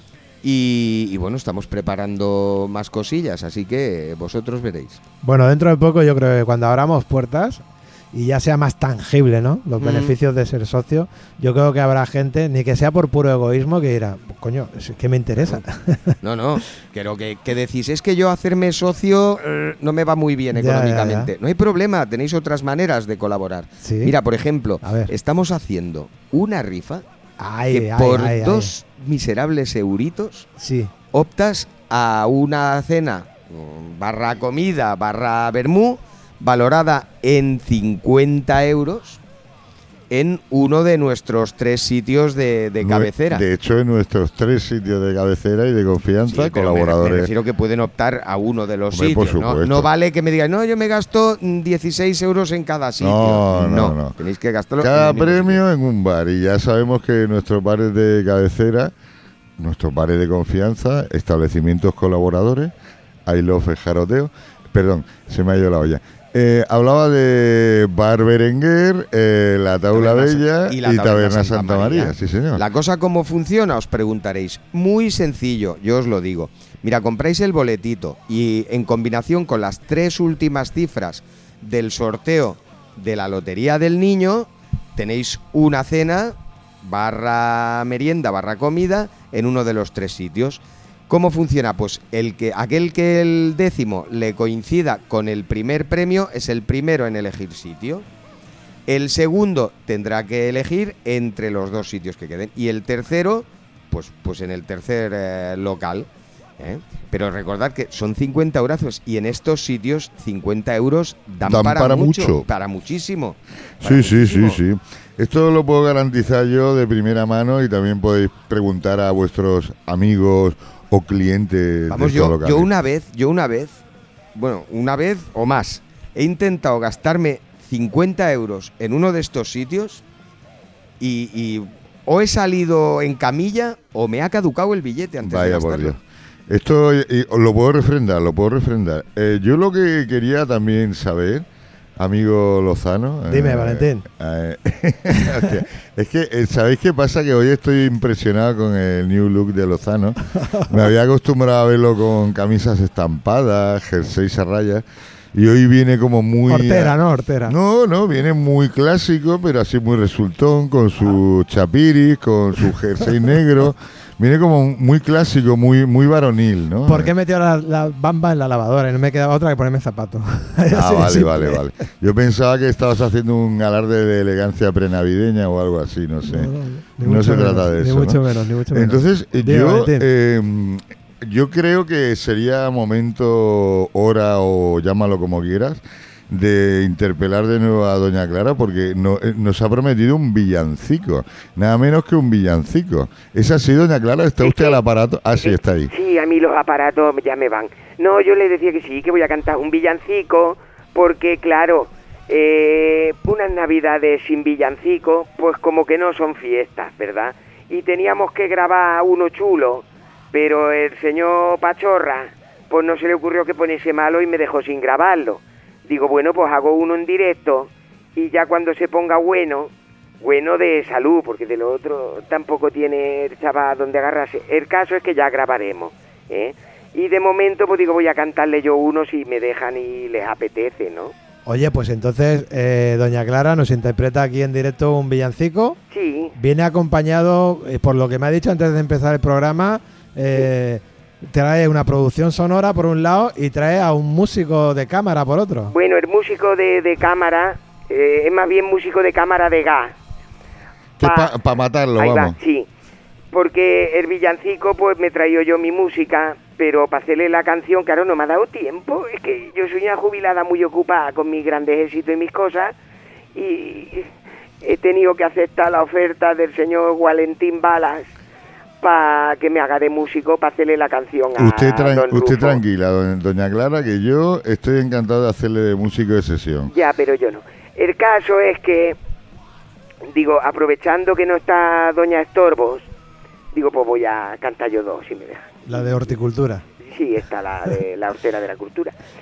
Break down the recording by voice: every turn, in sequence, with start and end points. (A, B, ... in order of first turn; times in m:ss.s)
0:00.4-0:05.0 A
0:05.2-0:16.1 B
0:09.8-0:10.2 A
0:16.2-0:27.0 A
0:20.5-0:21.3 B
0:23.8-0:24.1 B
0:24.8-0:25.1 B
0:27.4-0:28.7 B
0:27.7-0:30.5 A
0:30.6-0:30.9 B
0:31.1-0:39.2 A
0:40.1-0:43.4 A
0:42.8-0:47.3 C
0:46.3-0:55.6 A
0:48.9-0:49.9 C
0:53.0-0:54.1 C
0:54.8-0:58.9 C
0:59.6-1:02.7 C
1:03.2-1:12.6 C
1:09.9-1:38.0 A
1:38.9-1:46.1 A
1:46.6-1:54.6 A
1:51.4-1:52.4 C
1:53.8-2:02.7 C
2:01.9-2:03.8 A
2:04.3-2:10.0 A
2:11.0-2:16.0 A
2:15.2-2:21.4 C
2:22.0-2:47.1 C
2:23.3-2:24.0 B
2:30.3-2:30.8 B
2:36.5-2:37.5 B
2:46.9-2:51.6 B
2:50.7-3:15.9 C
2:56.3-3:00.0 B
3:14.4-3:14.8 D
3:15.3-3:51.1 D
3:51.4-3:55.8 B
3:55.9-3:56.3 D
3:56.4-4:05.7 B
4:05.7-4:09.9 D
4:11.0-4:12.4 C
4:11.0-4:11.3 D
4:12.0-4:12.7 D
4:13.3-4:22.7 D
4:23.3-4:24.1 D
4:24.6-4:28.1 D
4:28.8-4:32.6 D
4:31.4-4:36.7 C
4:36.7-4:39.0 D
4:40.1-4:42.9 D
4:43.5-4:45.8 D
4:45.7-4:46.6 B
4:46.8-4:48.9 D